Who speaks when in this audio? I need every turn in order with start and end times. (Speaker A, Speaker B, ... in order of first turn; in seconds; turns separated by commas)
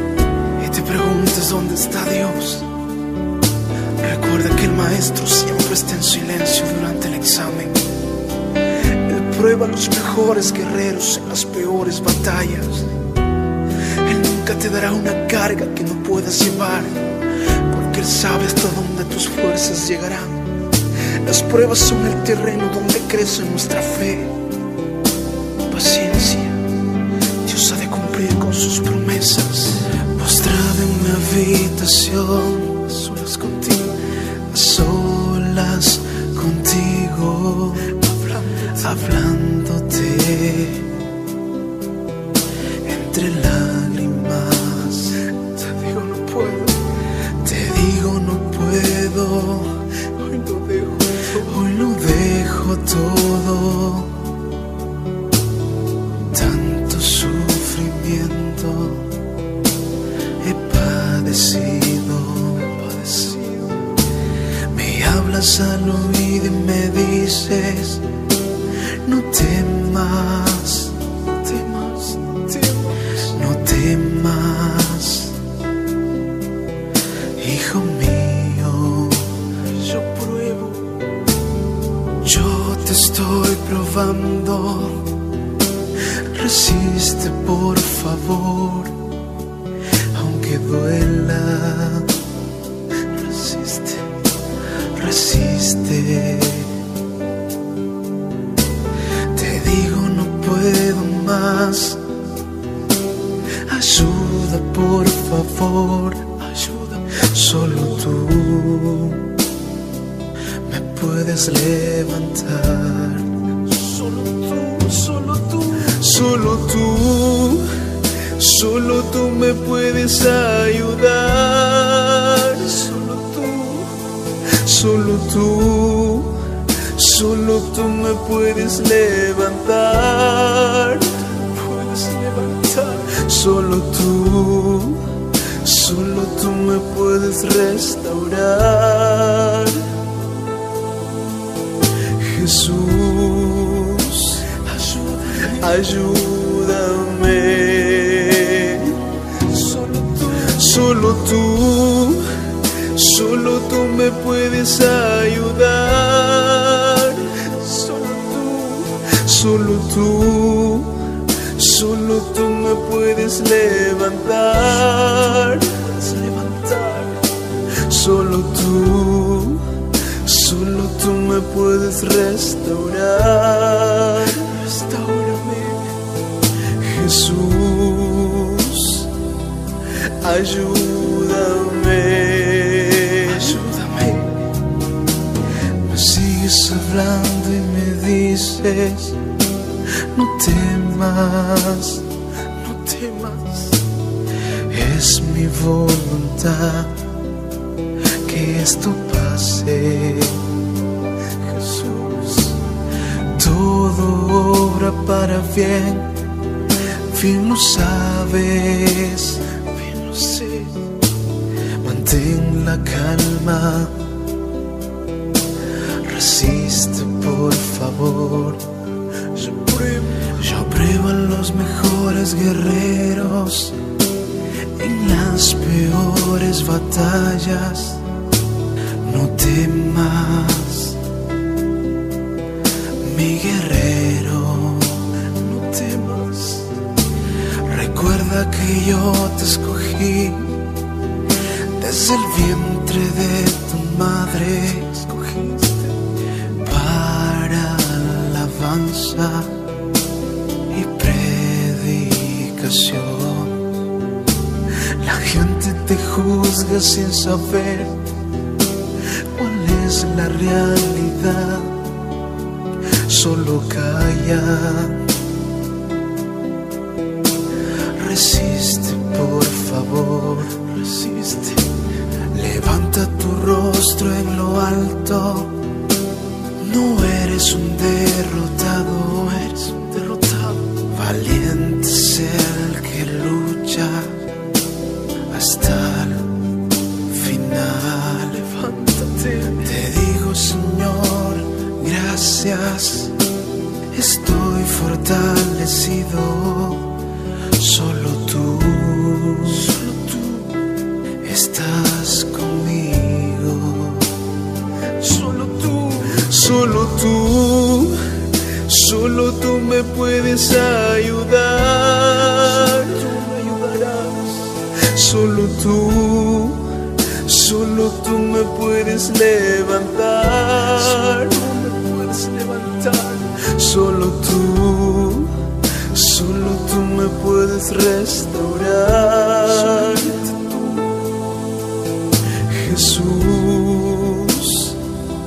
Speaker A: 0.6-2.8, Speaker A: 4.0-7.9, Speaker A: 8.9-13.0, Speaker A: 14.0-24.5, Speaker A: 25.7-26.8, Speaker A: 27.4-41.0, Speaker A: 42.8-54.4, Speaker A: 56.3-59.3, Speaker A: 60.4-63.9, Speaker A: 64.6-68.2, Speaker A: 68.9-75.4, Speaker A: 77.3-81.0, Speaker A: 82.2-85.3, Speaker A: 86.0-89.1, Speaker A: 90.0-92.2, Speaker A: 93.0-94.2, Speaker A: 94.9-96.9, Speaker A: 99.2-102.1, Speaker A: 103.6-109.4, Speaker A: 110.6-140.0, Speaker A: 142.0-175.9, Speaker A: 176.6-179.2, Speaker A: 180.0-184.5, Speaker A: 185.7-189.3, Speaker A: 190.0-193.9, Speaker A: 194.6-197.1, Speaker A: 198.1-200.6, Speaker A: 201.4-206.3, Speaker A: 207.0-210.9, Speaker A: 211.8-214.1, Speaker A: 215.9-218.8, Speaker A: 219.3-223.8, Speaker A: 224.7-228.1, Speaker A: 229.0-231.1, Speaker A: 233.0-236.8, Speaker A: 237.5-240.8, Speaker A: 241.6-249.7, Speaker A: 250.7-253.8, Speaker A: 254.8-258.1, Speaker A: 259.2-262.0, Speaker A: 262.9-265.1, Speaker A: 267.9-275.7, Speaker A: 276.6-284.3, Speaker A: 285.3-293.2, Speaker A: 293.9-300.6, Speaker A: 301.2-304.2, Speaker A: 304.9-330.9, Speaker A: 332.4-334.9